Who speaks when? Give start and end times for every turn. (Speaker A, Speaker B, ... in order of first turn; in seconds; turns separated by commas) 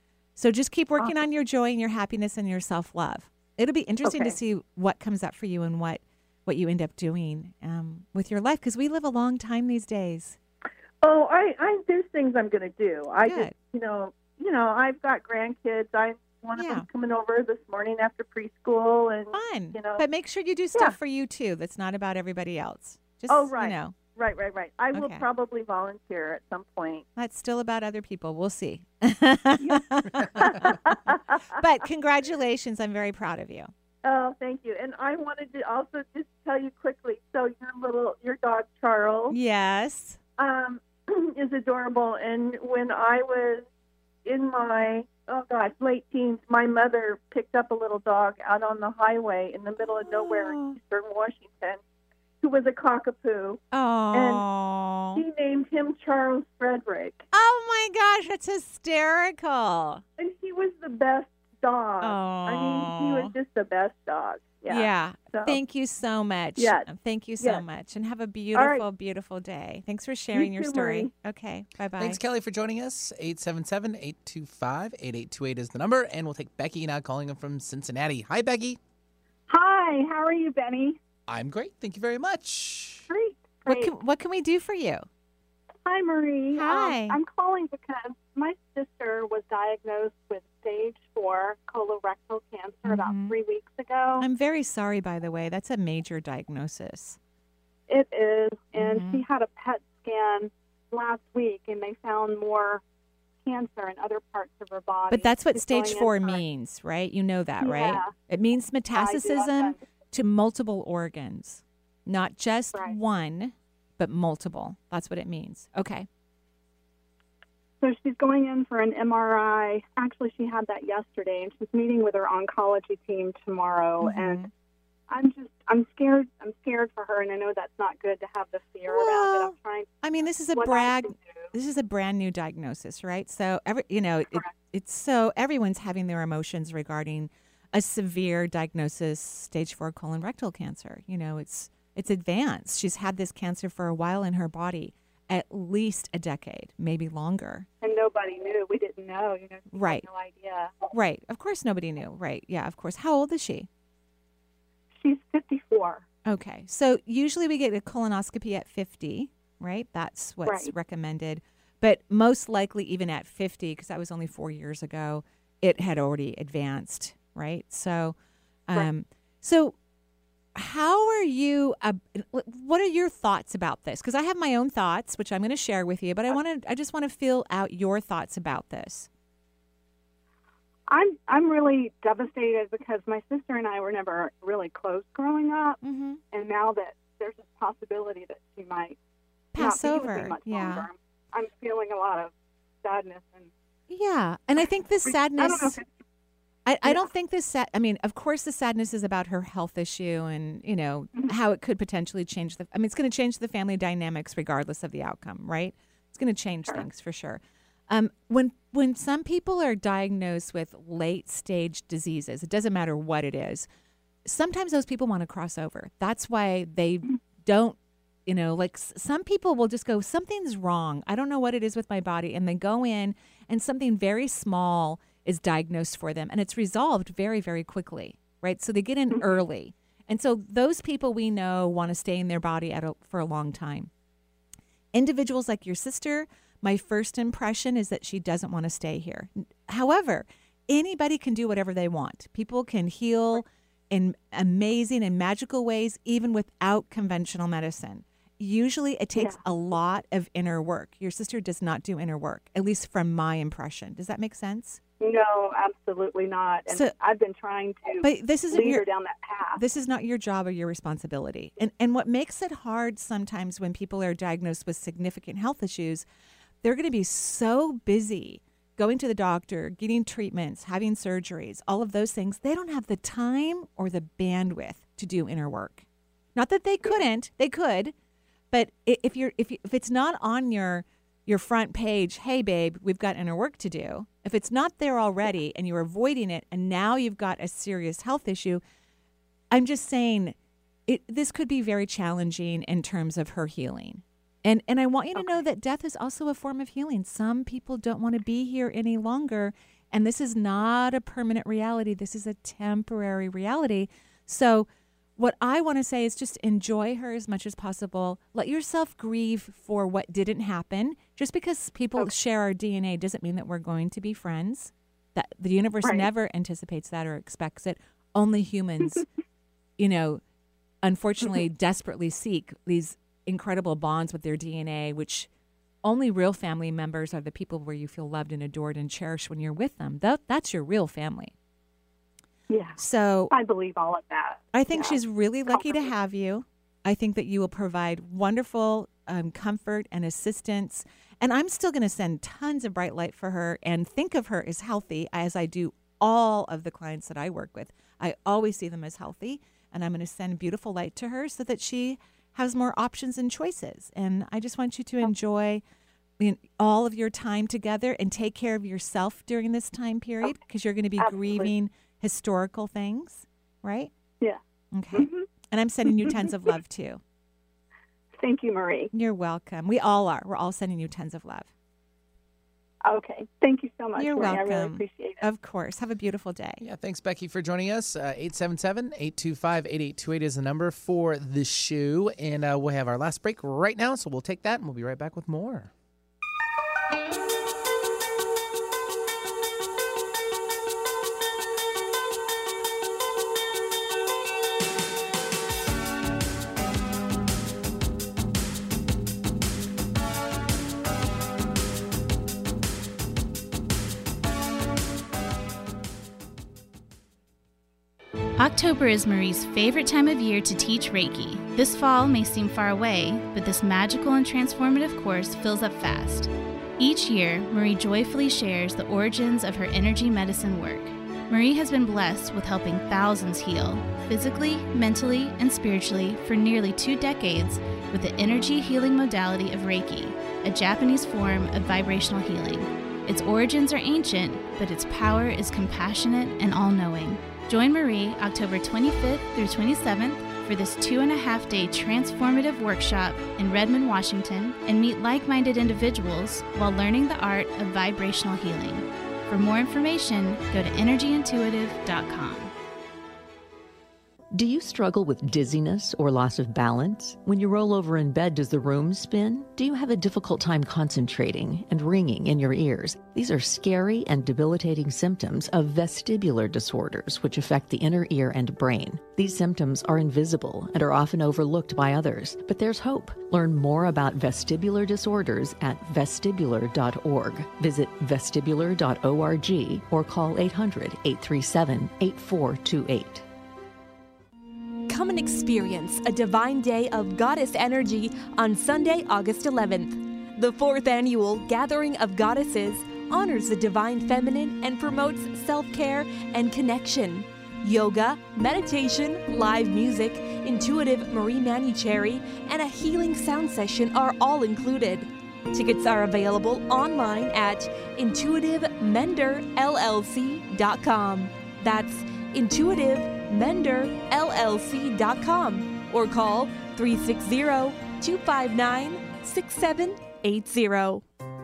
Speaker A: 0.3-10.4, Speaker B: 11.0-20.0, Speaker A: 13.2-13.6, Speaker A: 16.5-16.9, Speaker A: 19.3-23.9, Speaker B: 24.5-24.9, Speaker A: 24.9-25.2, Speaker B: 25.5-27.0, Speaker A: 27.1-33.7, Speaker B: 34.1-39.2, Speaker A: 39.3-40.2, Speaker B: 40.4-43.6, Speaker B: 44.2-50.0, Speaker A: 49.8-50.8, Speaker B: 50.9-51.8, Speaker B: 52.4-53.5, Speaker A: 53.7-55.2, Speaker B: 55.4-57.2, Speaker A: 57.3-60.0, Speaker B: 61.8-64.5, Speaker A: 62.0-63.3, Speaker A: 64.7-72.2, Speaker C: 72.0-78.8, Speaker D: 79.5-81.0, Speaker C: 81.3-83.0, Speaker D: 83.1-83.9, Speaker A: 83.7-85.0, Speaker D: 85.8-94.3, Speaker A: 86.5-87.2, Speaker A: 92.8-93.3, Speaker A: 94.2-97.2, Speaker D: 97.9-102.8, Speaker A: 98.7-99.2, Speaker D: 103.4-106.4, Speaker A: 105.1-116.1, Speaker D: 107.6-108.1, Speaker D: 108.9-109.8, Speaker D: 117.8-124.5, Speaker A: 124.0-124.5, Speaker D: 125.1-130.0, Speaker A: 128.8-147.7, Speaker D: 130.5-131.5, Speaker D: 147.8-150.7, Speaker A: 149.7-150.1, Speaker A: 150.9-153.7, Speaker D: 155.0-156.0, Speaker A: 156.2-168.2, Speaker D: 160.4-160.7, Speaker A: 168.7-169.8, Speaker A: 170.5-179.1, Speaker D: 180.9-185.8, Speaker A: 185.8-186.2, Speaker D: 186.3-189.0, Speaker A: 189.5-190.9, Speaker D: 189.6-193.5, Speaker A: 193.9-195.8, Speaker D: 195.1-195.8, Speaker A: 196.7-213.7, Speaker A: 214.2-233.9, Speaker A: 234.9-254.8, Speaker D: 249.1-249.4, Speaker D: 255.0-259.6, Speaker A: 256.7-256.9, Speaker A: 258.0-258.9, Speaker A: 259.5-266.0, Speaker A: 266.6-277.9, Speaker A: 278.5-288.6, Speaker A: 289.5-290.3, Speaker A: 290.9-304.7, Speaker A: 305.2-319.0, Speaker D: 315.8-316.1, Speaker A: 319.8-320.2, Speaker A: 320.8-325.3, Speaker A: 325.8-331.3, Speaker D: 332.5-335.9, Speaker A: 332.8-333.3, Speaker A: 334.5-355.6, Speaker A: 356.2-363.9, Speaker D: 361.0-361.5, Speaker A: 364.7-367.0, Speaker D: 364.9-365.2, Speaker D: 365.9-366.3, Speaker D: 368.2-368.9, Speaker A: 368.9-371.5, Speaker D: 372.8-375.3, Speaker A: 373.9-376.6, Speaker C: 376.6-385.7, Speaker E: 408.4-452.5, Speaker F: 454.3-483.2, Speaker G: 484.9-521.0